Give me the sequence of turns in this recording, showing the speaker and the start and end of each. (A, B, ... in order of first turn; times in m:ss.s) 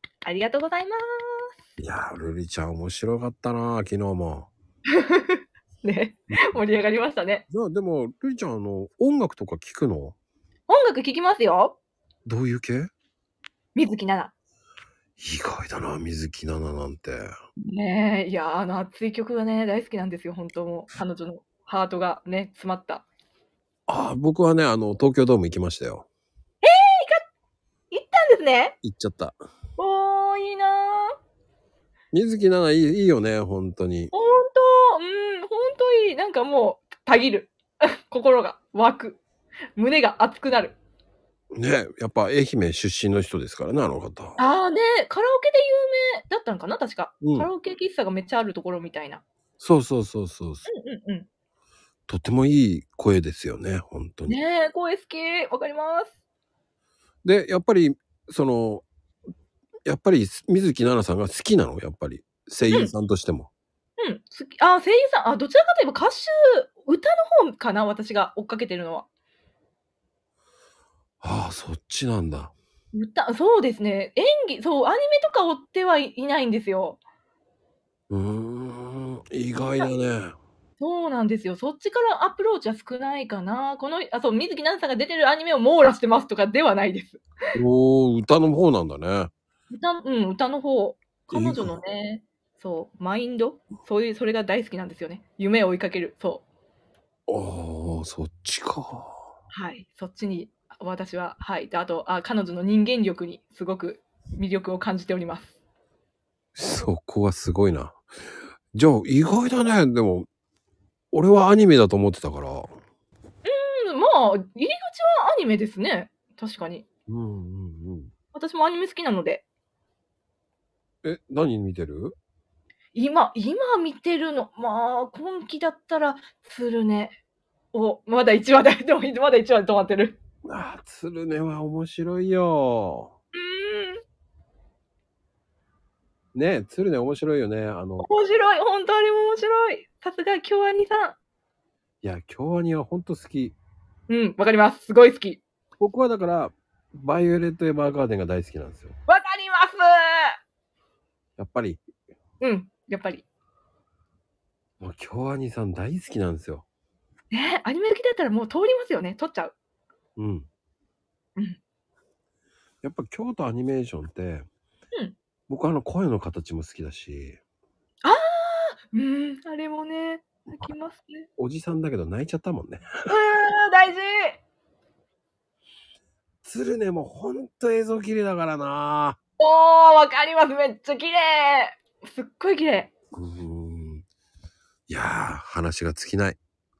0:00.2-0:01.0 A
0:01.8-0:04.5 B
0:04.9-0:07.4 A
0:07.5-0:10.2 B
0:10.7-0:11.8 A
0:12.2-0:12.9 B
0:13.7-0:14.3 A
0:15.2-0:17.3 B
0:17.6-0:23.0 A
0:23.9-0:26.1 B
0:26.6-0:27.2 A
0:27.9-0:28.8 A
0:28.8-0:29.3 B
0:29.8-0:31.1 A
0:32.1-0:34.1 B
0:34.1-0:39.2 A
0:39.8-0:40.8 A
0:41.5-0:44.4 B
0:44.4-0:49.2 A
0:47.2-0:47.5 B
0:49.6-0:50.7 B
0:50.6-0:51.3 A
0:52.1-0:54.4 B
0:54.3-0:56.1 A
0:57.2-0:58.8 B
0:59.8-1:03.5 B
1:02.7-1:02.9 A
1:04.0-1:09.0 A
1:11.2-1:12.5 B
1:12.9-1:17.0 A
1:18.1-1:20.3 B
1:20.8-1:27.2 A
1:27.6-1:29.3 B
1:29.7-1:36.4 A
1:31.3-1:31.7 B
1:37.3-1:39.2 B
1:39.5-1:45.5 A
1:46.6-1:48.0 B
1:48.7-1:50.3 B
1:51.1-1:52.7 B
1:53.4-1:56.8 A
1:57.1-1:58.1 B
1:58.3-1:59.4 A
2:01.0-2:02.1 B
2:02.9-2:07.2 A
2:07.7-2:10.2 A
2:10.4-2:13.1 B
2:13.3-2:14.0 A
2:16.3-2:18.1 B
2:18.0-2:21.2 A
2:22.0-2:23.6 B
2:24.1-2:25.4 A
2:25.8-2:29.0 B
2:29.1-2:30.4 A
2:31.4-2:31.8 B
2:32.4-2:33.2 A
2:34.8-2:36.6 B
2:37.3-2:39.5 A
2:40.2-2:40.5 B
2:42.8-2:44.5 B
2:45.5-2:47.4 B
2:48.0-2:51.3 A
2:51.4-2:52.8 B
2:53.1-2:54.4 A
2:56.4-2:59.2 B
2:59.4-3:02.9 A
3:03.1-3:04.0 B
3:04.9-3:06.4 B